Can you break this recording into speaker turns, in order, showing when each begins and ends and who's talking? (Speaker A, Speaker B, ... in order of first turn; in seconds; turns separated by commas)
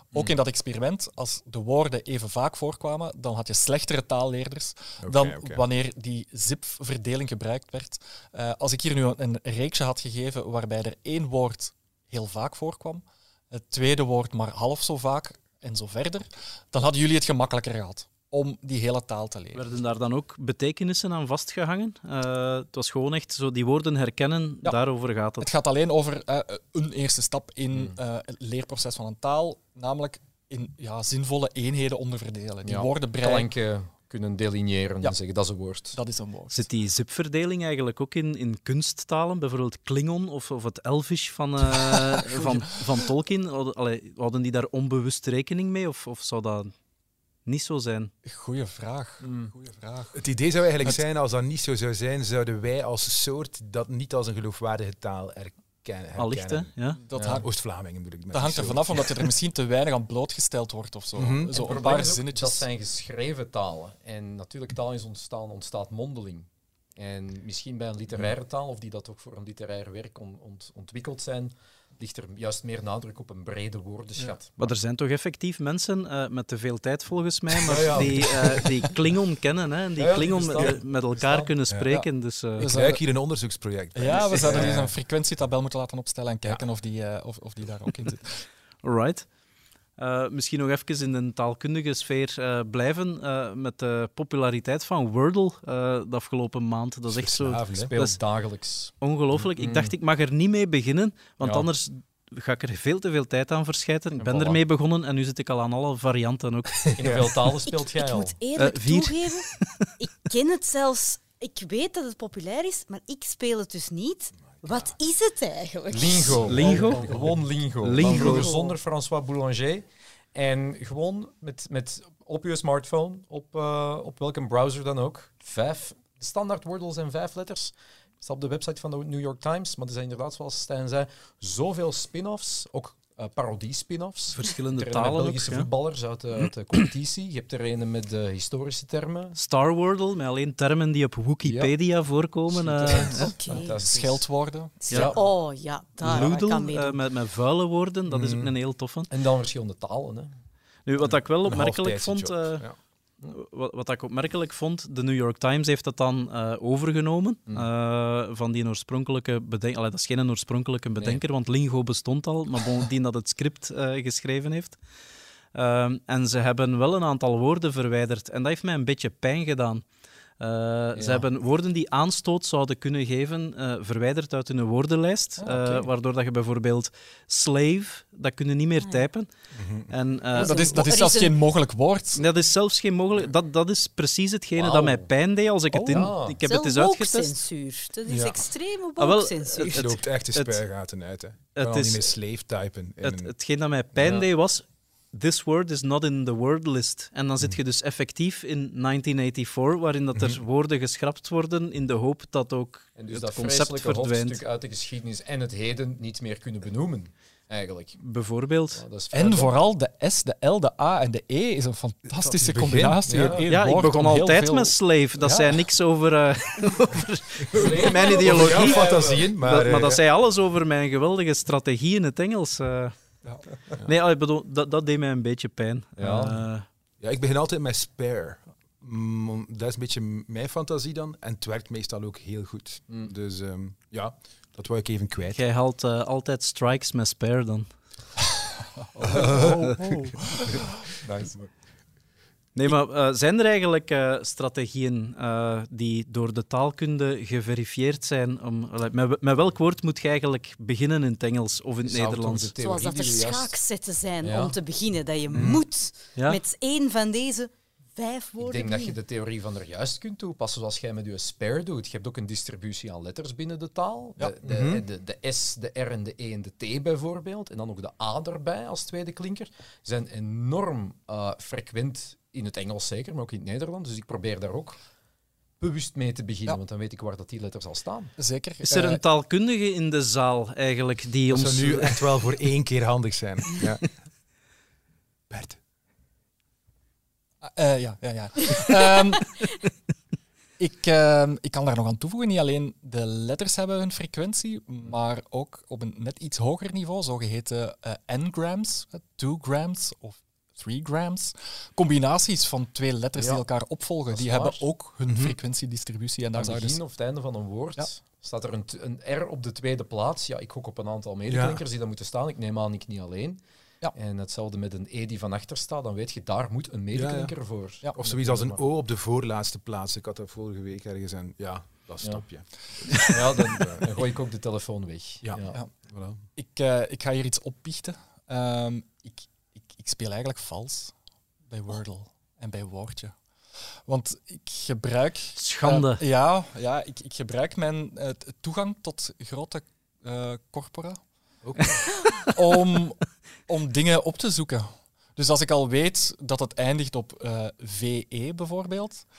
Speaker A: 0.1-19.6, Speaker B: 5.0-5.6, Speaker C: 19.5-25.5, Speaker A: 25.4-33.5, Speaker D: 32.6-36.0, Speaker A: 35.9-36.7, Speaker C: 36.5-46.7, Speaker A: 41.8-42.7, Speaker C: 47.5-48.1, Speaker A: 48.2-50.2, Speaker D: 49.2-49.5, Speaker B: 50.1-56.7, Speaker C: 56.2-57.0, Speaker A: 57.1-57.5, Speaker D: 57.1-57.5, Speaker B: 57.3-59.3, Speaker A: 58.3-62.6, Speaker B: 61.2-61.6, Speaker D: 61.5-74.6, Speaker C: 74.6-82.7, Speaker B: 77.6-78.9, Speaker D: 80.0-81.5, Speaker B: 81.7-82.0, Speaker A: 82.6-83.0, Speaker B: 82.7-84.8, Speaker A: 83.9-88.4, Speaker D: 84.2-84.9, Speaker C: 88.8-89.3, Speaker C: 90.0-98.2, Speaker B: 97.1-97.9, Speaker D: 97.8-99.9, Speaker C: 99.0-107.0, Speaker D: 101.4-101.7, Speaker D: 104.2-104.6, Speaker B: 106.8-107.3, Speaker D: 107.0-108.4, Speaker E: 107.6-116.4, Speaker C: 108.6-109.9, Speaker B: 114.6-114.9, Speaker D: 115.9-139.4, Speaker B: 116.5-117.4, Speaker C: 116.5-117.3, Speaker C: 117.8-118.6, Speaker E: 118.2-118.7, Speaker C: 134.3-135.7, Speaker C: 139.4-143.3, Speaker D: 141.4-141.7, Speaker D: 142.5-144.3, Speaker E: 143.1-143.7, Speaker A: 143.5-144.8, Speaker D: 144.8-145.2, Speaker E: 144.9-147.0, Speaker C: 144.9-145.1, Speaker C: 146.0-149.1, Speaker B: 148.1-148.5, Speaker D: 149.1-150.3, Speaker C: 150.9-152.7, Speaker B: 151.4-152.8, Speaker C: 153.2-164.8, Speaker C: 165.5-169.8, Speaker C: 170.4-179.3, Speaker D: 171.0-171.2, Speaker A: 175.4-175.7, Speaker B: 179.5-179.9, Speaker C: 179.9-180.7, Speaker E: 180.4-181.4, Speaker A: 180.4-182.2, Speaker C: 182.2-187.3, Speaker D: 184.6-185.1, Speaker A: 185.7-186.1, Speaker D: 185.9-186.4, Speaker E: 186.4-189.9, Speaker B: 188.1-188.4, Speaker C: 189.0-190.6, Speaker B: 189.8-193.3, Speaker C: 191.6-192.1, Speaker C: 193.0-204.4, Speaker B: 200.2-200.4, Speaker D: 202.9-208.0, Speaker C: 208.0-208.8, Speaker D: 208.8-209.6, Speaker A: 209.1-215.6, Speaker B: 212.1-213.4, Speaker D: 213.0-213.4, Speaker C: 213.5-223.0, Speaker B: 217.5-220.0, Speaker D: 217.5-219.4, Speaker C: 223.8-226.7, Speaker D: 226.0-226.4, Speaker B: 227.0-235.4, Speaker C: 235.3-237.7, Speaker A: 238.9-240.6, Speaker B: 239.0-241.5, Speaker C: 239.4-239.8, Speaker D: 241.1-241.3, Speaker C: 242.6-252.5, Speaker D: 251.8-253.6, Speaker E: 252.6-259.0, Speaker D: 254.2-254.6, Speaker B: 255.3-255.6, Speaker D: 258.4-274.8, Speaker B: 264.4-264.8, Speaker D: 275.6-278.1, Speaker A: 278.2-279.0, Speaker C: 278.6-282.1, Speaker B: 281.3-284.0, Speaker B: 285.3-285.6, Speaker A: 287.4-289.4, Speaker A: 290.6-306.8, Speaker D: 303.2-303.4, Speaker D: 304.1-304.6, Speaker B: 305.1-305.4, Speaker D: 306.4-313.4, Speaker B: 311.3-311.6, Speaker D: 313.9-318.6, Speaker B: 316.9-324.0, Speaker D: 322.9-325.6, Speaker B: 325.2-326.2, Speaker A: 326.4-330.9, Speaker A: 331.5-333.2, Speaker A: 333.9-341.0, Speaker C: 335.4-336.0, Speaker B: 341.5-341.8, Speaker D: 341.6-341.8, Speaker A: 342.3-349.1